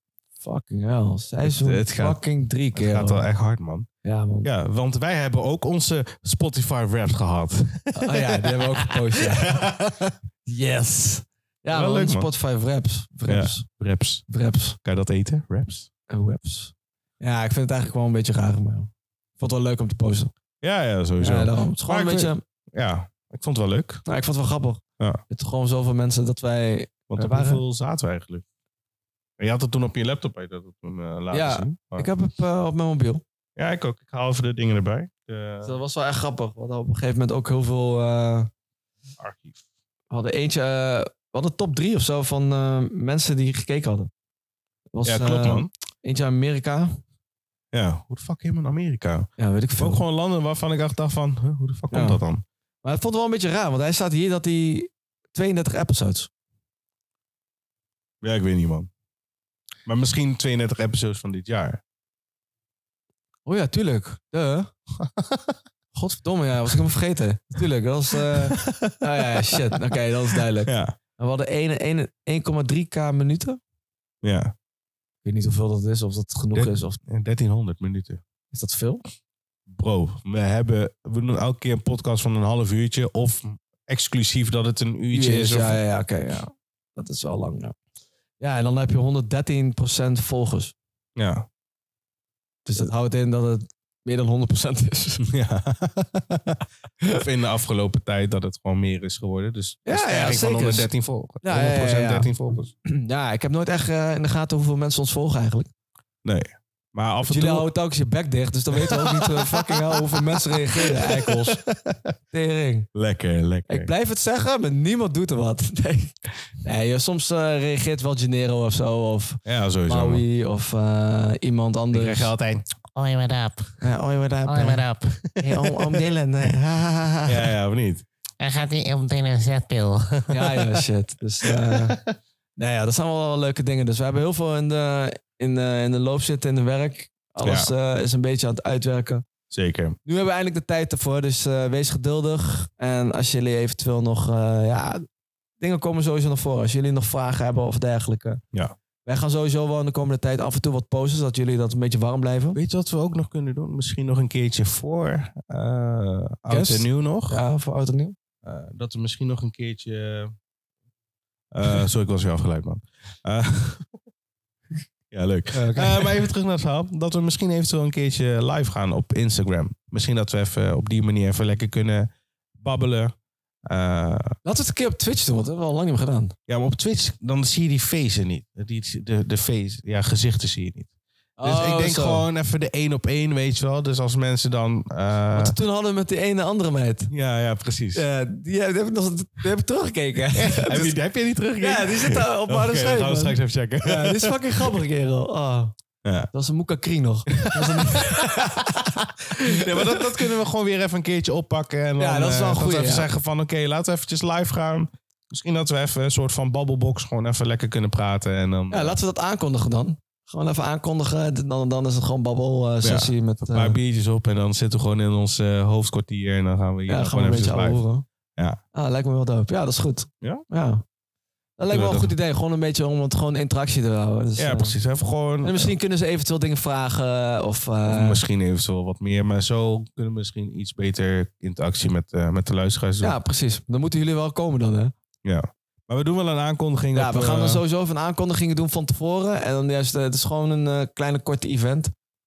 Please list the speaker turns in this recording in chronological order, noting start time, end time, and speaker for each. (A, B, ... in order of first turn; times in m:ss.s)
0:00.4-0:03.2 A
0:01.4-0:02.2 B
0:02.7-0:03.9 B
0:04.0-0:04.5 A
0:04.4-0:10.1 B
0:08.0-0:09.6 A
0:10.4-0:13.7 A
0:11.7-0:12.3 B
0:13.3-0:14.2 B
0:14.3-0:14.8 A
0:14.8-0:15.9 B
0:16.1-0:20.3 A
0:20.6-0:24.0 B
0:21.2-0:22.4 A
0:24.0-0:27.6 A
0:27.1-0:28.4 B
0:29.4-0:32.1 B
0:31.3-0:33.2 A
0:33.6-0:35.8 B
0:35.6-0:38.5 A
0:39.2-0:39.6 B
0:40.1-0:44.1 A
0:44.9-0:47.0 A
0:45.0-0:45.7 B
0:47.7-0:52.4 B
0:49.4-0:50.0 A
0:51.9-0:52.2 A
0:52.8-0:56.3 A
0:58.2-0:58.9 B
0:59.9-1:01.8 B
1:03.5-1:04.7 A
1:05.0-1:05.6 B
1:05.9-1:13.6 A
1:08.2-1:09.0 B
1:09.5-1:11.0 B
1:14.2-1:14.5 B
1:15.2-1:17.0 A
1:16.6-1:18.2 B
1:18.5-1:19.0 A
1:19.7-1:25.8 B
1:25.1-1:27.8 A
1:28.4-1:30.8 A
1:31.2-1:31.5 B
1:32.7-1:35.3 A
1:35.2-1:42.7 B
1:39.8-1:40.9 A
1:41.4-1:45.7 A
1:46.2-1:47.7 B
1:47.3-1:51.6 A
1:48.8-1:52.0 B
1:52.3-1:52.9 A
1:53.0-1:53.9 B
1:53.7-2:02.3 A
1:59.4-2:00.2 B
2:01.9-2:02.6 B
2:03.0-2:03.8 C
2:03.8-2:04.8 A
2:04.5-2:05.8 C
2:05.4-2:07.4 A
2:07.3-2:08.0 B
2:08.4-2:10.6 C
2:10.3-2:12.0 A
2:11.6-2:12.1 B
2:12.6-2:19.3 A
2:17.4-2:17.7 B
2:19.5-2:20.0 B
2:20.0-2:25.1 A
2:25.6-2:28.4 A
2:29.0-2:32.6 A
2:32.6-2:37.4 B
2:36.5-2:38.2 A
2:38.4-2:40.3 B
2:41.5-2:43.9 B
2:45.1-2:53.1 B
2:45.5-2:46.2 A
2:53.7-2:54.4 B
2:54.4-2:56.4 A
2:56.5-3:00.9 B
3:01.4-3:02.3 A
3:01.4-3:05.6 B
3:05.3-3:07.1 A
3:07.1-3:08.0 B
3:07.9-3:11.0 A
3:10.4-3:14.7 B
3:11.6-3:15.7 A
3:16.0-3:16.3 B
3:16.3-3:18.9 A
3:17.4-3:29.0 B
3:19.5-3:20.1 A
3:22.0-3:23.1 A
3:28.7-3:33.8 A
3:32.8-3:37.8 B
3:36.9-3:38.1 A
3:38.7-3:40.8 A
3:41.6-3:44.8 A
3:41.7-3:42.1 B
3:44.4-3:45.8 B
3:45.4-3:48.2 A
3:47.9-3:53.2 B
3:53.0-3:54.9 A
3:55.2-3:57.6 B
3:56.9-4:01.9 A